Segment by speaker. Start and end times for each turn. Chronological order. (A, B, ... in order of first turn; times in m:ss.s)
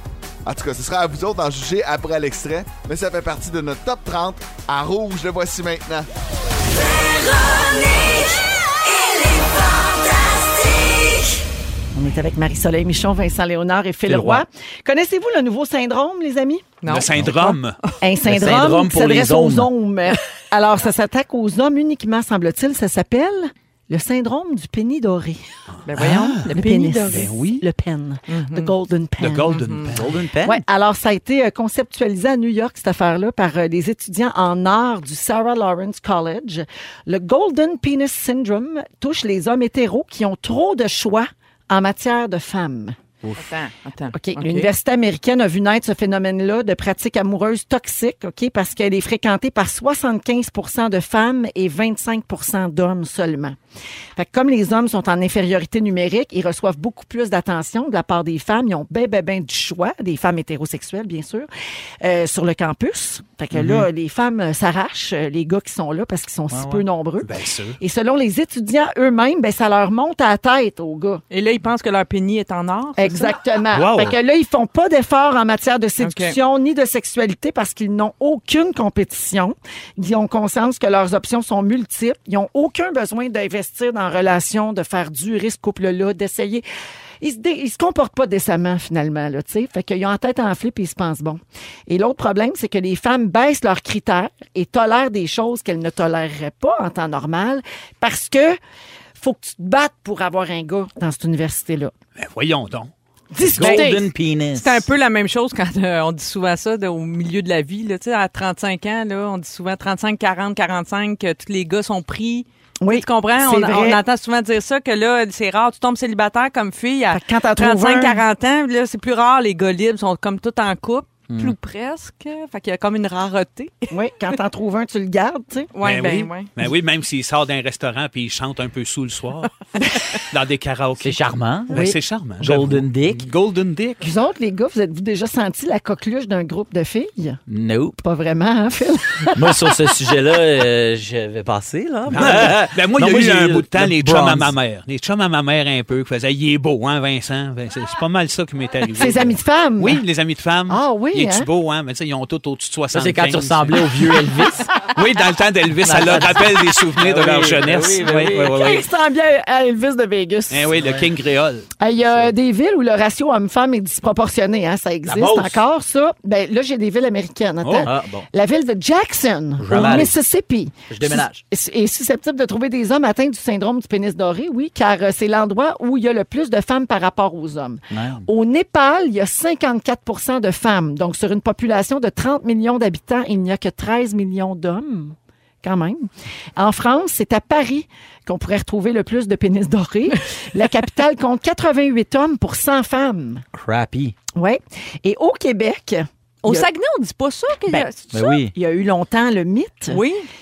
0:00.4-0:06.1 A
0:11.9-0:16.6 B
0:14.1-0:14.4 C
0:16.8-0:18.0 D
0:16.9-0:17.8 E
0:18.0-0:25.4 B
0:18.2-0:19.7 C
0:25.8-0:27.3 D
0:25.9-0:26.5 E
0:26.5-0:29.8 B
0:27.1-0:27.6 E
0:28.3-0:28.8 D
0:29.2-0:30.3 E
0:29.5-0:30.0 D
0:29.9-0:30.6 C
0:30.4-0:43.0 B
0:43.2-0:44.7 D
0:44.1-0:53.6 B
0:54.2-1:01.5 B
1:02.0-1:11.2 B
1:03.5-1:03.9 E
1:06.5-1:07.8 E
1:11.3-1:13.4 D
1:13.0-1:26.6 B
1:13.7-1:14.2 E
1:16.0-1:16.4 D
1:27.2-1:38.6 B
1:39.2-1:41.9 B
1:42.2-1:42.9 E
1:43.3-1:44.1 B
1:43.4-1:44.8 C
1:43.6-1:44.0 D
1:44.5-2:03.9 D
1:52.8-1:54.0 B
1:57.1-1:58.2 B
2:01.3-2:01.6 C
2:03.9-2:05.7 B
2:05.7-2:06.5 D
2:05.8-2:09.6 E
2:10.3-2:14.0 E
2:11.0-2:11.8 C
2:11.7-2:12.0 B
2:12.4-2:13.9 C
2:14.0-2:17.4 B
2:17.5-2:18.0 C
2:18.0-2:19.7 B
2:19.4-2:24.5 C
2:22.1-2:38.7 E
2:29.0-2:30.0 B
2:30.7-2:31.5 B
2:32.9-2:35.0 C
2:35.8-2:38.8 C
2:38.5-2:40.8 B
2:40.5-2:41.7 E
2:40.8-2:41.1 C
2:41.8-3:13.4 B
2:45.1-2:45.6 C
2:47.6-2:47.9 E
2:47.8-2:48.2 C
2:49.6-2:50.2 C
2:50.9-2:51.4 C
2:57.9-2:58.3 C
3:13.5-3:14.2 C
3:14.4-3:16.7 B
3:16.4-3:18.5 D
3:17.7-3:17.9 B
3:18.1-3:18.5 C
3:18.5-3:20.0 B
3:19.9-3:20.2 D